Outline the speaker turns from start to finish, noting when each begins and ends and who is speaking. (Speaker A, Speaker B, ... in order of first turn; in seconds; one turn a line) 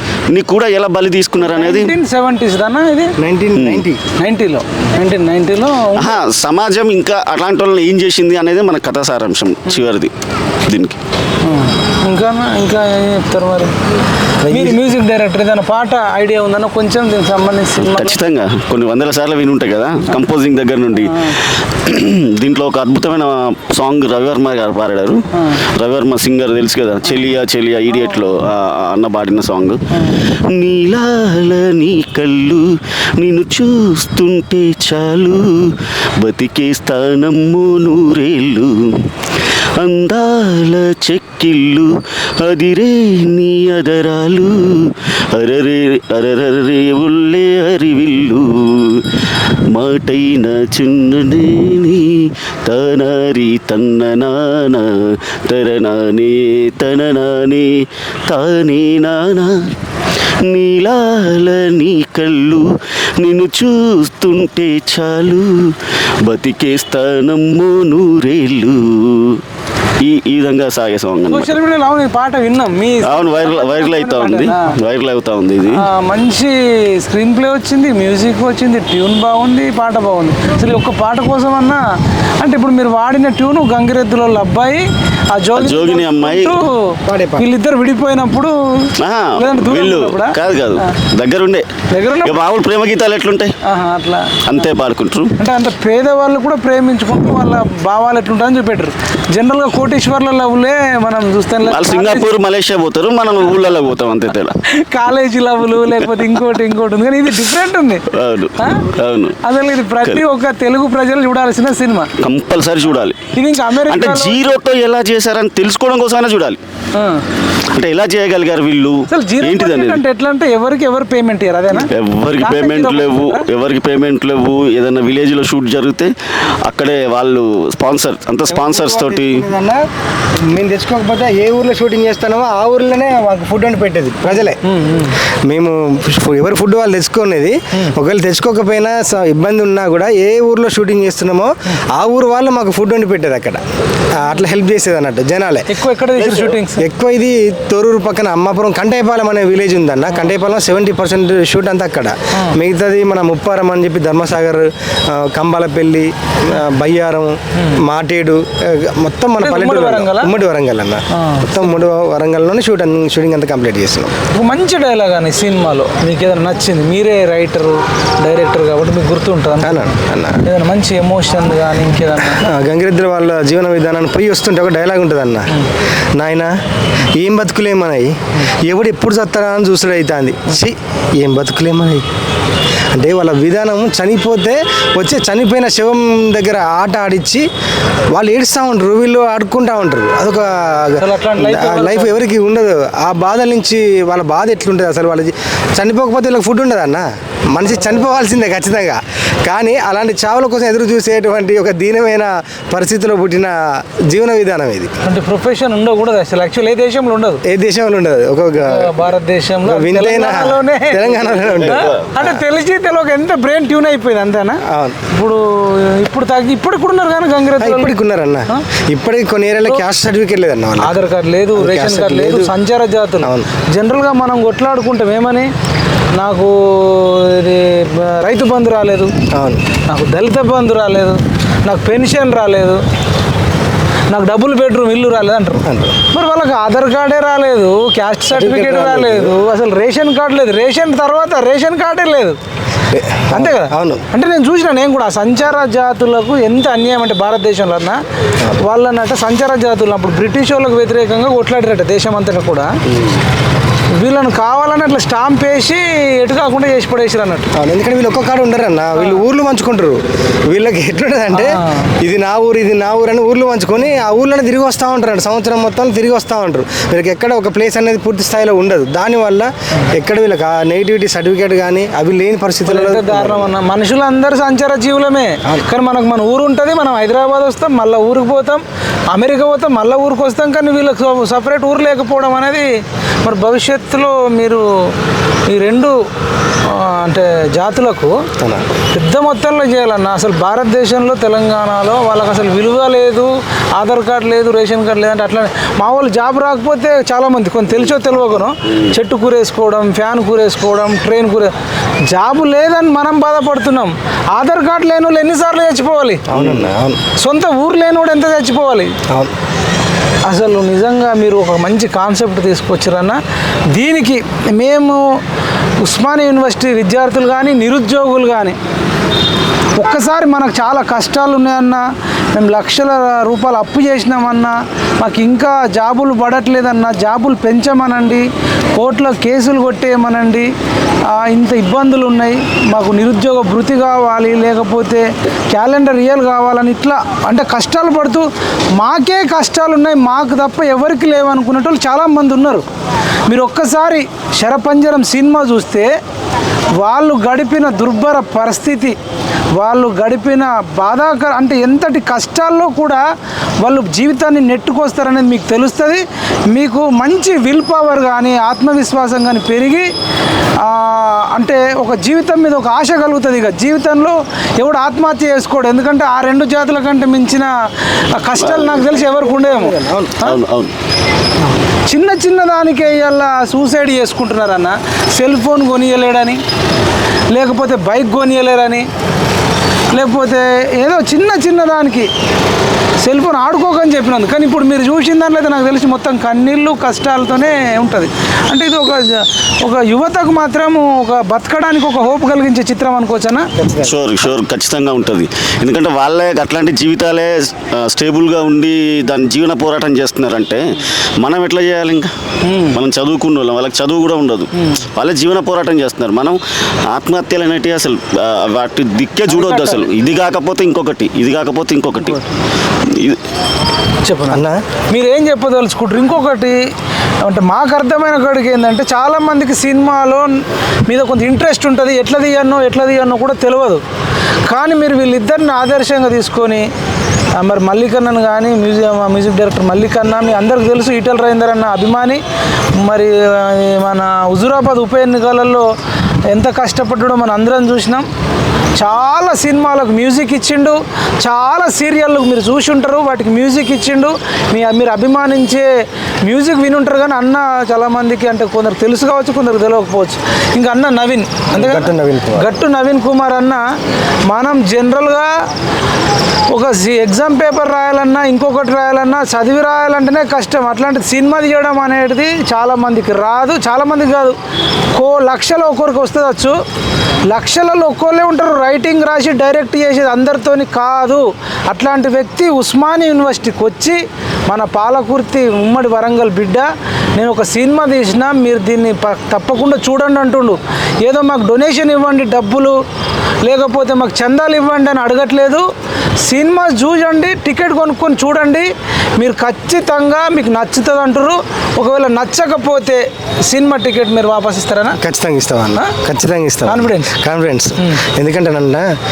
Speaker A: 0.3-1.9
Speaker B: 1.4-3.1
Speaker C: 3.2-4.0
Speaker A: 3.5-3.9
Speaker B: 4.2-6.2
Speaker A: 5.9-10.1
Speaker A: 10.6-11.0
Speaker B: 11.4-13.7
Speaker C: 14.4-14.8
Speaker B: 14.5-18.1
Speaker A: 17.8-39.1
Speaker B: 21.0-21.3
Speaker B: 25.3-25.6
Speaker B: 29.9-30.2
Speaker A: 39.8-49.1
Speaker A: 49.7-59.8
Speaker A: 60.4-69.4
Speaker A: 70.0-71.5
Speaker B: 71.3-74.7
Speaker A: 73.0-75.8
Speaker B: 75.7-81.8
Speaker B: 82.4-90.9
Speaker A: 85.5-86.5
Speaker C: 87.0-87.5
Speaker A: 89.0-91.7
Speaker B: 91.9-92.4
Speaker A: 92.2-93.5
Speaker B: 93.6-94.5
Speaker A: 94.4-95.3
Speaker B: 95.4-102.3
Speaker A: 101.7-104.6
Speaker B: 104.7-108.9
Speaker A: 108.1-109.4
Speaker B: 109.4-112.1
Speaker A: 112.2-113.3
Speaker B: 113.3-114.5
Speaker A: 113.9-116.6
Speaker B: 116.9-117.2
Speaker A: 117.7-120.0
Speaker B: 119.1-123.5
Speaker A: 121.7-126.1
Speaker A: 126.6-129.4
Speaker C: 128.5-129.8
Speaker C: 130.4-134.6
Speaker B: 134.6-135.2
Speaker C: 135.4-145.7
Speaker B: 145.7-146.8
Speaker A: 146.1-146.6
Speaker C: 146.8-164.1
Speaker B: 159.4-160.3
Speaker B: 161.1-161.7
Speaker B: 164.3-169.9
Speaker C: 169.6-170.4
Speaker B: 170.4-172.5
Speaker C: 172.3-175.5
Speaker C: 176.2-176.6
Speaker C: 177.1-182.1
Speaker C: 182.9-187.5
Speaker C: 188.1-204.9
Speaker B: 191.0-192.2
Speaker B: 205.0-207.4
Speaker C: 207.4-208.9
Speaker B: 208.6-217.9
Speaker C: 209.6-212.4
Speaker A: 211.6-212.1
Speaker C: 214.7-215.0
Speaker C: 217.6-221.0
Speaker B: 220.8-225.5
Speaker C: 221.5-222.5
Speaker C: 223.2-223.5
Speaker B: 226.2-229.1
Speaker C: 229.3-229.6
Speaker B: 229.9-232.8
Speaker B: 234.1-242.4
Speaker C: 235.6-236.0
Speaker C: 238.3-239.3
Speaker C: 242.9-244.0
Speaker B: 243.3-248.0
Speaker B: 248.6-252.7
Speaker B: 253.9-257.5
Speaker C: 257.5-273.5
Speaker B: 259.0-259.2
Speaker B: 261.3-261.9
Speaker B: 272.6-282.7
Speaker B: 283.2-284.9
Speaker B: 285.5-286.0
Speaker B: 286.6-288.2
Speaker C: 288.4-288.6
Speaker B: 288.9-301.5
Speaker B: 302.0-306.4
Speaker C: 306.3-307.0
Speaker B: 307.1-308.9
Speaker B: 310.2-313.2
Speaker B: 313.7-315.0
Speaker B: 315.8-318.6
Speaker B: 319.8-330.5
Speaker B: 331.1-342.6
Speaker B: 343.3-345.9
Speaker B: 346.8-348.9
Speaker B: 349.5-353.0
Speaker B: 353.6-359.9
Speaker B: 360.6-370.4
Speaker A: 368.4-368.8
Speaker C: 368.8-370.2
Speaker A: 370.2-370.7
Speaker B: 371.9-376.4
Speaker B: 377.3-378.9
Speaker B: 379.9-382.1
Speaker B: 383.0-393.5
Speaker C: 393.6-393.9
Speaker A: 393.8-402.1
Speaker B: 402.4-402.8
Speaker A: 402.7-406.4
Speaker A: 406.9-412.2
Speaker B: 409.3-409.8
Speaker A: 412.9-413.2
Speaker B: 414.0-416.7
Speaker C: 414.3-414.6
Speaker B: 417.2-423.8
Speaker B: 424.5-426.7
Speaker B: 427.4-432.2
Speaker B: 432.7-435.7
Speaker B: 436.3-438.1
Speaker B: 438.8-445.7
Speaker B: 446.2-453.6
Speaker C: 451.5-452.5
Speaker B: 454.3-455.3
Speaker B: 456.5-464.4
Speaker B: 464.9-466.6
Speaker B: 467.3-482.8
Speaker B: 483.4-485.6
Speaker B: 486.2-495.0
Speaker C: 495.0-498.9
Speaker B: 496.6-497.1